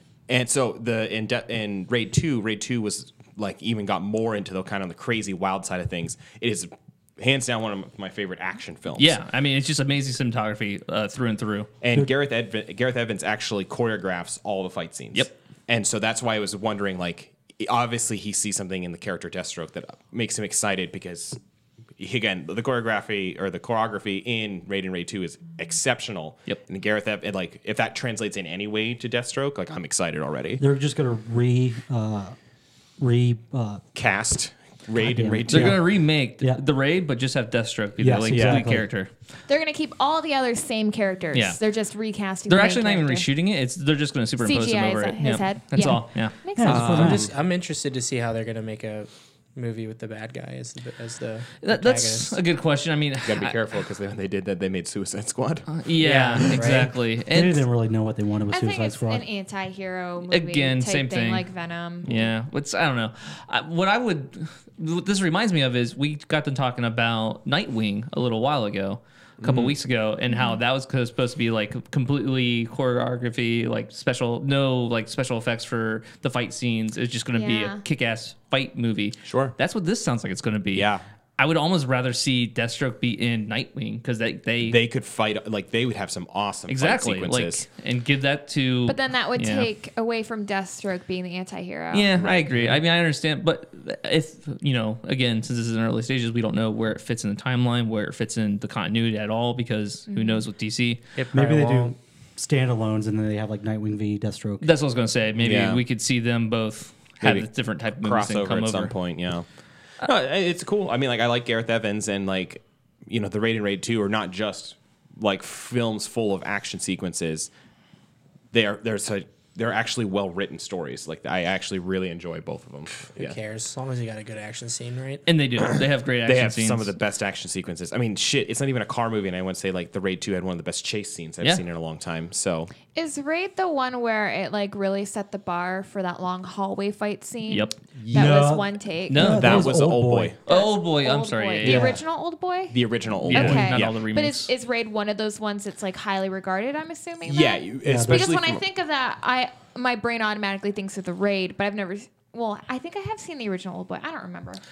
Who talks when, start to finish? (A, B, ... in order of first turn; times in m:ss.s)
0:00.3-0:09.2 A
0:08.9-0:11.7 B
0:11.8-0:21.4 A
0:22.0-0:30.6 A
0:30.6-0:32.4 C
0:33.0-0:33.8 C
0:33.9-0:35.8 A
0:35.0-0:35.8 C
0:35.5-0:39.1 B
0:38.0-0:38.8 C
0:38.3-0:38.6 A
0:39.5-0:43.2 D
0:41.3-0:41.6 B
0:42.5-0:46.3 B
0:44.4-0:46.8 D
0:46.6-0:47.3 C
0:46.6-0:47.3 A
0:46.7-0:52.4 E
0:51.6-0:53.6 B
0:53.2-0:55.7 A
0:55.7-0:57.6 B
0:56.0-0:56.9 E
0:57.3-0:59.2 C
0:58.5-1:02.1 D
1:00.3-1:01.5 B
1:02.0-1:24.8 B
1:02.0-1:02.3 A
1:09.4-1:09.7 A
1:10.3-1:10.6 D
1:17.3-1:17.8 D
1:19.2-1:19.5 A
1:20.7-1:21.0 A
1:24.6-1:27.6 A
1:26.7-1:29.7 B
1:28.9-1:32.1 D
1:31.9-1:41.0 B
1:32.1-1:32.8 A
1:40.1-1:40.4 D
1:41.1-1:41.9 E
1:41.3-1:44.7 C
1:44.6-1:48.9 B
1:45.4-1:45.8 A
1:47.2-1:49.5 A
1:50.0-1:57.5 A
1:58.5-2:03.4 A
2:03.1-2:05.2 E
2:05.2-2:06.9 B
2:06.2-2:12.7 A
2:12.9-2:19.4 D
2:17.5-2:17.8 B
2:18.0-2:18.4 A
2:18.1-2:20.3 C
2:19.1-2:19.7 B
2:19.2-2:20.4 A
2:20.5-2:21.9 B
2:20.5-2:34.6 D
2:21.6-2:22.0 C
2:22.7-2:24.0 A
2:23.2-2:24.5 B
2:27.2-2:28.6 A
2:27.8-2:28.3 C